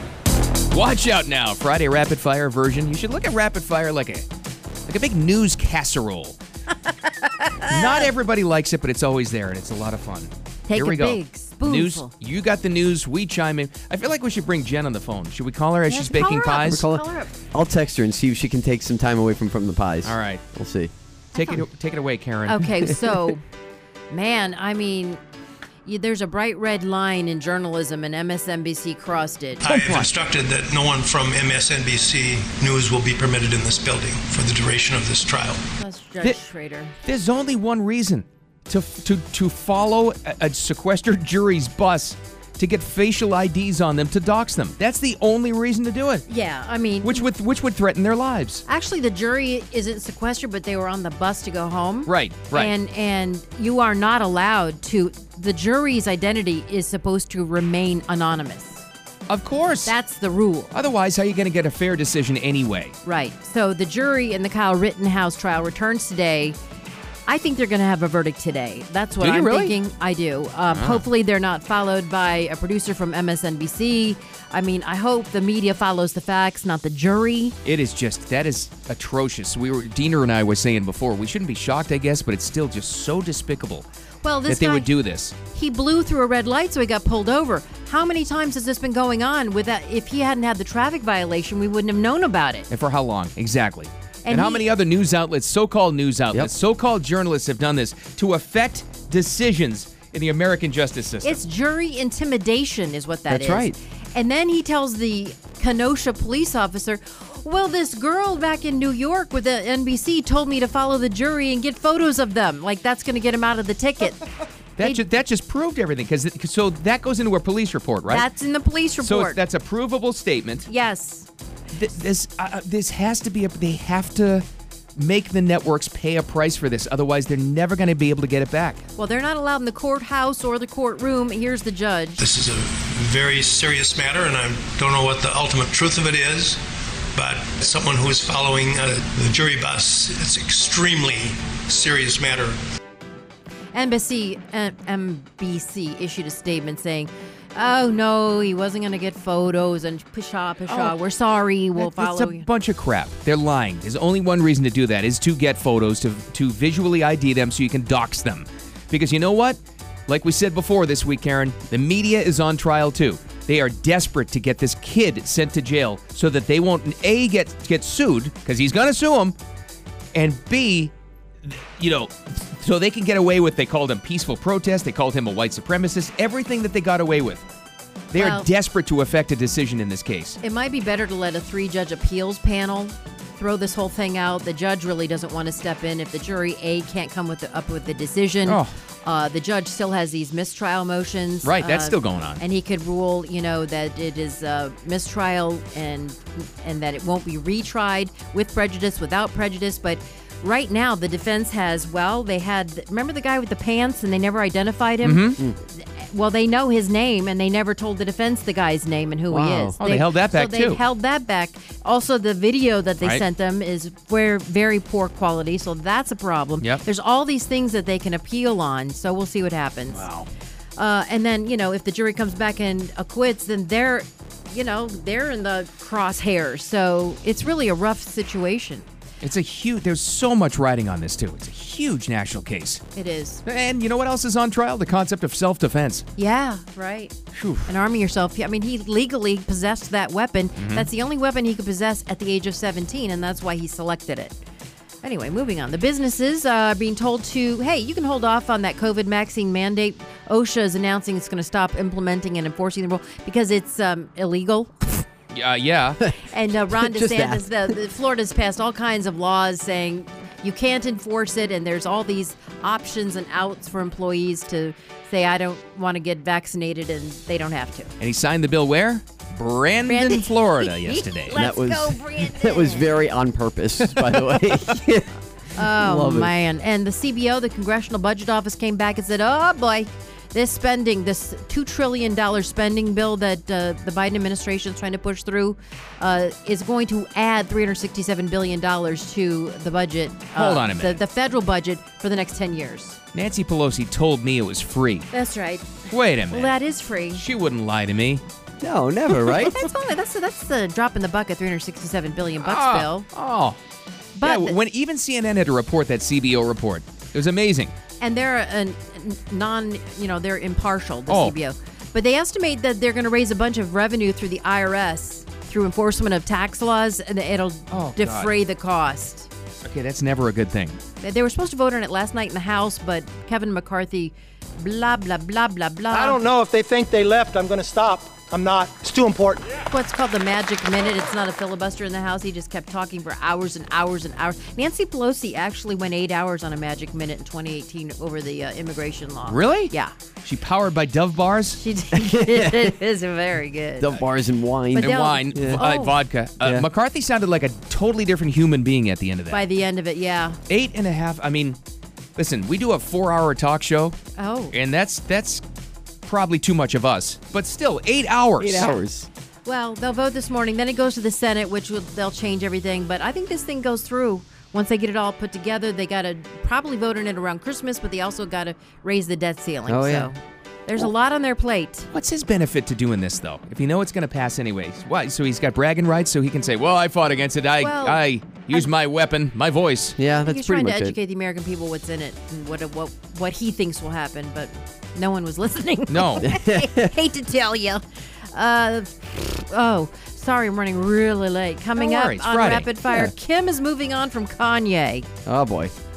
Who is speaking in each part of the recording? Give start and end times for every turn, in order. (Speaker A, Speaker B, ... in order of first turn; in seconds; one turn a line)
Speaker A: 0.7-4.3
Speaker A: 4.9-6.4
Speaker B: 7.0-8.1
Speaker A: 7.7-16.9
Speaker B: 10.7-12.1
Speaker B: 15.8-17.3
Speaker C: 16.6-20.9
Speaker A: 20.0-20.4
Speaker A: 21.3-22.7
Speaker B: 21.3-21.6
Speaker B: 22.5-23.4
Speaker B: 24.1-25.2
Speaker B: 25.8-29.7
Speaker D: 29.6-35.6
Speaker A: 29.6-30.1
Speaker B: 35.8-36.9
Speaker A: 37.0-46.2
Speaker B: 46.3-47.2
Speaker A: 47.0-48.6
Speaker B: 48.7-58.8
Speaker A: 52.0-52.7
Speaker A: 59.3-59.9
Speaker B: 59.8-60.7
Speaker A: 60.7-62.9
Speaker B: 63.0-66.6
Speaker B: 67.2-77.5
Speaker A: 69.2-69.8
Speaker A: 70.7-71.0
Speaker A: 77.6-83.9
Speaker B: 84.2-84.9
Speaker A: 84.5-85.3
Speaker B: 85.5-92.7
Speaker A: 92.7-101.4
Speaker B: 94.2-94.7
Speaker B: 101.2-114.2
Speaker C: 103.3-103.8
Speaker A: 114.8-118.2
Speaker B: 114.8-115.0
Speaker B: 118.1-119.4
Speaker A: 119.0-120.7
Speaker B: 120.7-121.3
Speaker A: 121.7-124.4
Speaker A: 125.0-128.8
Speaker B: 129.0-132.2
Speaker D: 132.2-136.6
Speaker D: 137.1-142.6
Speaker B: 143.7-152.4
Speaker A: 150.7-150.9
Speaker A: 151.8-169.3
Speaker A: 170.1-170.9
Speaker A: 171.4-177.4
Speaker A: 178.1-180.4
Speaker B: 178.2-178.5
Speaker B: 180.4-220.0
Speaker A: 188.4-188.7
Speaker A: 191.4-192.4
Speaker A: 205.0-205.4
Speaker C: 209.3-209.8
Speaker A: 209.8-210.8
Speaker A: 219.9-220.3
Speaker B: 220.8-228.8
Speaker A: 229.2-232.8
Speaker B: 232.9-233.4
Speaker A: 233.4-236.0
Speaker B: 236.2-237.1
Speaker A: 237.3-237.7
Speaker B: 237.7-244.3
Speaker A: 240.6-240.9
Speaker B: 245.0-255.0
Speaker A: 255.3-256.0
Speaker B: 256.2-267.9
Speaker C: 256.7-257.5
Speaker A: 268.0-271.4
Speaker B: 269.9-273.0
Speaker C: 271.3-276.3
Speaker B: 275.5-293.0
Speaker A: 290.4-291.0
Speaker A: 293.1-295.1
Speaker B: 295.1-297.2
Speaker A: 295.9-296.5
Speaker A: 297.1-298.2
Speaker C: 298.6-299.6
Speaker B: 299.3-303.1
Speaker A: 302.4-303.6
Speaker B: 304.2-304.6
Speaker A: 304.2-307.7
Speaker B: 308.0-319.3
Speaker A: 311.1-311.3
Speaker A: 317.7-318.3
Speaker A: 319.6-320.8
Speaker B: 321.0-326.2
Speaker E: 325.9-329.5
Speaker B: 329.6-339.9
Speaker A: 339.3-339.7
Speaker A: 340.2-341.6
Speaker B: 341.6-344.0
Speaker C: 341.9-342.8
Speaker C: 343.8-345.6
Speaker B: 344.7-345.9
Speaker A: 344.8-349.4
Speaker C: 346.4-346.7
Speaker B: 349.3-350.4
Speaker A: 350.5-351.6
Speaker A: 352.1-353.9
Speaker B: 354.2-354.5
Speaker A: 354.5-355.4
Speaker A: 356.0-358.8
Speaker C: 358.4-359.1
Speaker B: 359.4-371.9
Speaker C: 369.7-370.1
Speaker A: 371.9-380.0
Speaker B: 377.6-378.7
Speaker C: 380.0-380.9
Speaker B: 380.1-395.1
Speaker A: 385.9-386.3
Speaker C: 386.2-386.9
Speaker A: 391.8-392.7
Speaker C: 395.2-395.7